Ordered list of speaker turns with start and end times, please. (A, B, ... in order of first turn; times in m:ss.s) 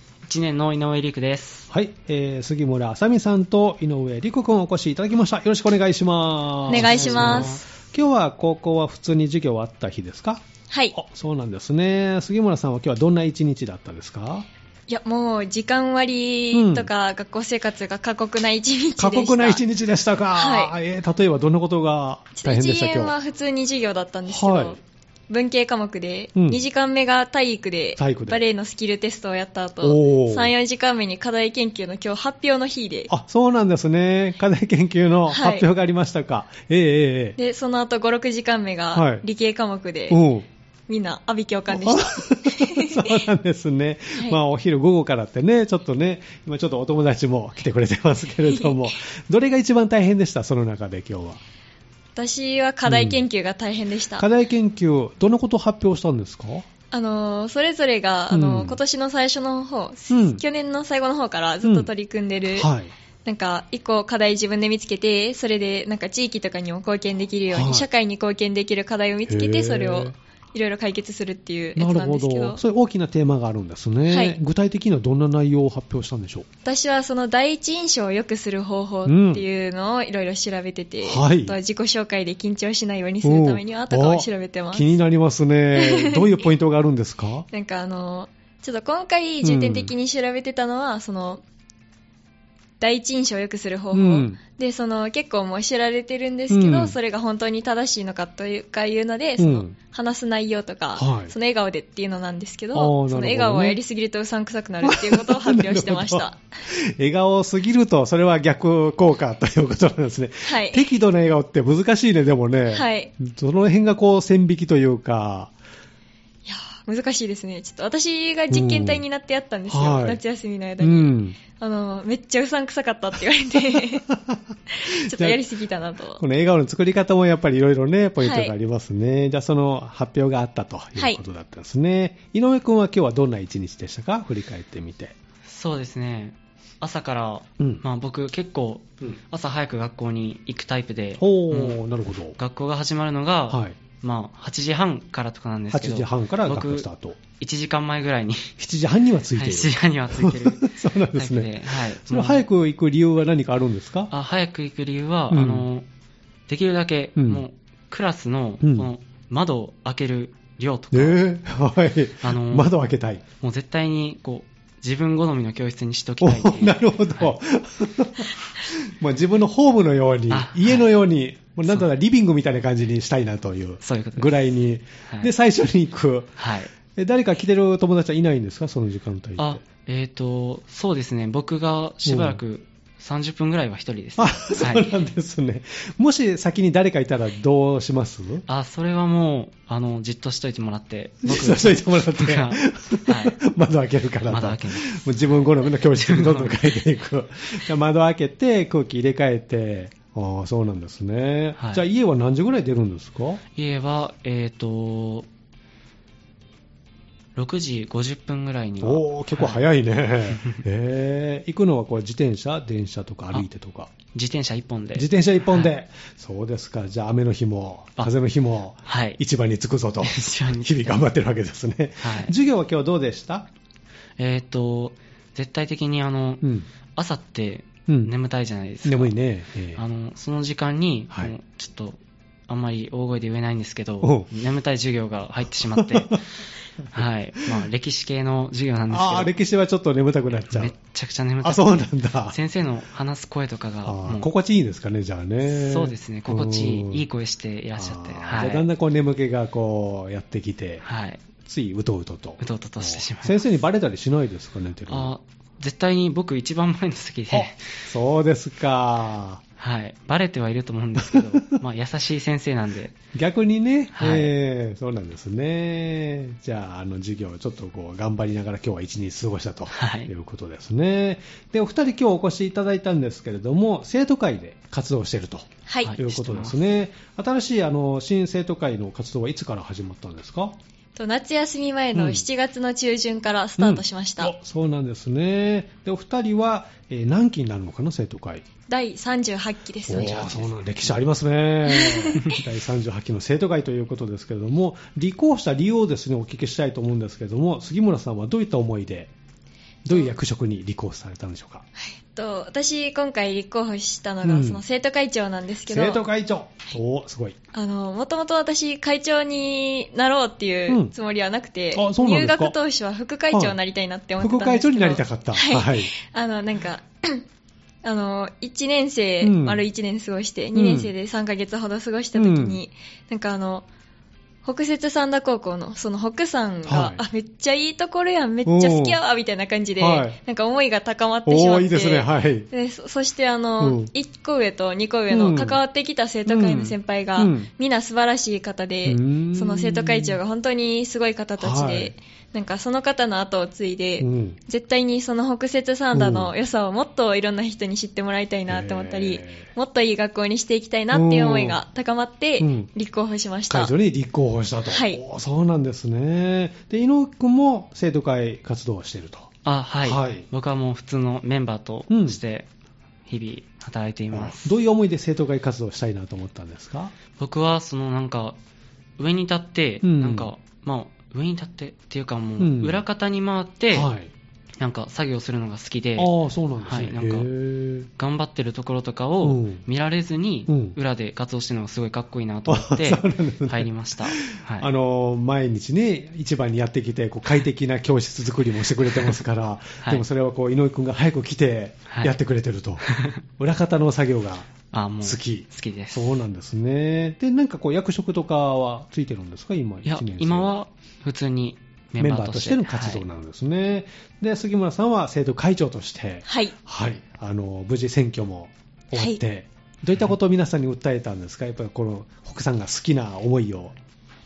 0:00.2-0:01.7 A
0:01.7-0:14.5 B
0:06.7-0:07.6 A
0:06.7-0:07.6 C
0:10.7-0:11.0 C
0:14.9-0:19.6 C
0:16.5-0:16.9 B
0:19.0-0:23.1 B
0:20.3-0:20.7 C
0:22.4-0:33.1 C
0:24.3-0:24.8 B
0:26.4-0:26.6 B
0:28.0-0:28.4 B
0:29.8-0:30.5 B
0:33.1-0:37.4 B
0:35.3-0:35.7 C
0:37.4-0:40.2 C
0:38.9-0:39.2 B
0:40.1-0:40.4 B
0:40.9-0:43.3 C
0:41.7-0:51.4 B
0:48.5-0:48.8 C
0:52.2-0:54.2 C
0:52.8-0:53.2 B
0:54.2-0:56.6 B
0:56.9-1:02.7 C
0:58.3-0:58.8 B
1:00.1-1:00.4 B
1:01.6-1:01.9 B
1:02.5-1:02.9 B
1:03.2-1:12.6 C
1:07.5-1:07.9 B
1:09.3-1:10.2 B
1:11.8-1:16.5 B
1:14.1-1:14.4 C
1:16.6-1:25.0 C
1:19.1-1:19.4 B
1:21.0-1:21.6 B
1:23.2-1:27.5 B
1:25.8-1:26.5 C
1:27.5-1:31.4 C
1:29.4-1:29.9 B
1:32.8-1:46.4 C
1:33.9-1:34.4 B
1:36.5-1:36.9 B
1:39.4-1:39.8 B
1:41.0-1:41.3 B
1:42.7-1:43.8 B
1:44.8-1:55.5 B
1:50.4-1:50.9 C
1:52.7-1:53.1 C
1:56.4-2:04.0 C
1:58.5-1:59.0 B
1:59.7-2:00.2 B
2:00.8-2:01.4 B
2:04.0-2:05.4 B
2:04.7-2:06.2 C
2:06.2-2:15.1 B
2:08.2-2:08.5 C
2:15.4-2:21.8 A
2:21.2-2:22.4 B
2:22.4-2:28.5 A
2:23.5-2:23.8 B
2:25.7-2:27.2 B
2:28.6-2:34.1 B
2:29.3-2:32.4 A
2:34.1-2:35.8 A
2:35.3-2:35.7 B
2:36.5-2:41.2 A
2:37.2-2:37.4 B
2:38.6-2:38.9 B
2:40.9-2:43.2 B
2:42.2-2:42.7 A
2:43.4-2:47.3 A
2:46.2-2:56.4 B
2:50.3-2:50.9 A
2:53.8-2:54.3 A
2:55.0-2:55.3 A
2:56.4-2:56.7 A
2:56.9-2:59.6 B
2:59.4-3:04.9 A
3:02.0-3:02.4 B
3:04.2-3:08.4 B
3:08.5-3:13.4 A
3:11.2-3:23.4 B
3:14.3-3:15.2 A
3:15.7-3:16.8 A
3:21.6-3:21.8 A
3:23.5-3:25.3 A
3:27.4-3:29.6 A
3:28.8-3:33.9 B
3:34.1-3:35.7 A
3:35.0-3:43.5 B
3:38.8-3:39.2 A
3:40.0-3:41.0 A
3:42.0-3:42.3 A
3:44.2-3:46.4 A
3:46.4-3:46.7 B
3:46.9-3:49.1 A
3:48.9-3:49.8 B
3:49.8-3:52.0 A
3:52.5-3:56.2 A
3:54.0-3:54.3 B
3:55.8-3:56.2 B
3:56.9-3:59.3 A
3:56.9-3:57.6 B
3:58.9-4:00.7 B
4:00.4-4:04.3 A
4:01.4-4:02.4 B
4:03.8-4:07.0 B
4:05.4-4:08.6 A
4:07.8-4:10.8 B
4:10.8-4:11.2 A
4:11.4-4:15.1 B
4:12.4-4:13.5 A
4:14.9-4:17.6 A
4:17.3-4:19.4 B
4:19.6-4:23.0 A
4:21.0-4:21.6 B
4:23.1-4:40.6 B
4:23.9-4:24.3 A
4:29.7-4:30.1 A
4:35.7-4:35.9 C
4:35.8-4:36.6 A
4:41.0-4:44.3 C
4:41.9-4:42.2 B
4:43.6-4:48.4 B
4:48.7-4:50.5 C
4:49.9-4:59.1 B
4:51.7-4:52.4 C
4:59.8-5:01.7 B
5:01.8-5:06.0 C
5:04.2-5:04.6 B
5:05.7-5:07.4 B
5:07.5-5:17.2 C
5:10.7-5:10.9 B
5:11.7-5:12.6 B
5:13.3-5:13.6 B
5:14.2-5:15.9 B
5:17.8-5:23.7 C
5:19.2-5:19.6 B
5:20.6-5:20.9 B
5:22.2-5:22.6 B
5:24.4-5:53.7 C
5:26.6-5:27.0 B
5:28.5-5:29.0 B
5:29.8-5:30.2 B
5:31.2-5:32.5 B
5:33.6-5:33.9 B
5:35.1-5:35.6 B
5:36.2-5:37.5 B
5:38.9-5:40.2 B
5:41.4-5:41.9 B
5:44.0-5:44.4 B
5:45.9-5:46.3 B
5:48.5-5:49.5 B
5:50.9-5:51.6 B
5:52.4-5:52.7 B
5:53.5-5:59.3 B
5:54.7-5:55.0 C
5:59.4-6:02.5 A
5:59.8-6:00.2 B
6:01.9-6:02.2 B
6:03.1-6:04.6 A
6:04.1-6:06.9 B
6:07.2-6:08.4 A
6:09.0-6:13.9 A
6:09.8-6:10.3 B
6:12.4-6:12.8 B
6:13.7-6:14.1 B
6:14.6-6:16.1 A
6:16.0-6:17.9 B
6:16.6-6:17.3 A
6:18.0-6:24.7 A
6:19.2-6:19.6 B
6:20.5-6:20.8 B
6:22.5-6:32.9 B
6:32.8-6:33.2 A
6:33.4-6:40.5 B
6:34.7-6:36.2 A
6:39.9-6:43.0 A
6:42.0-6:53.7 B
6:46.2-6:46.5 C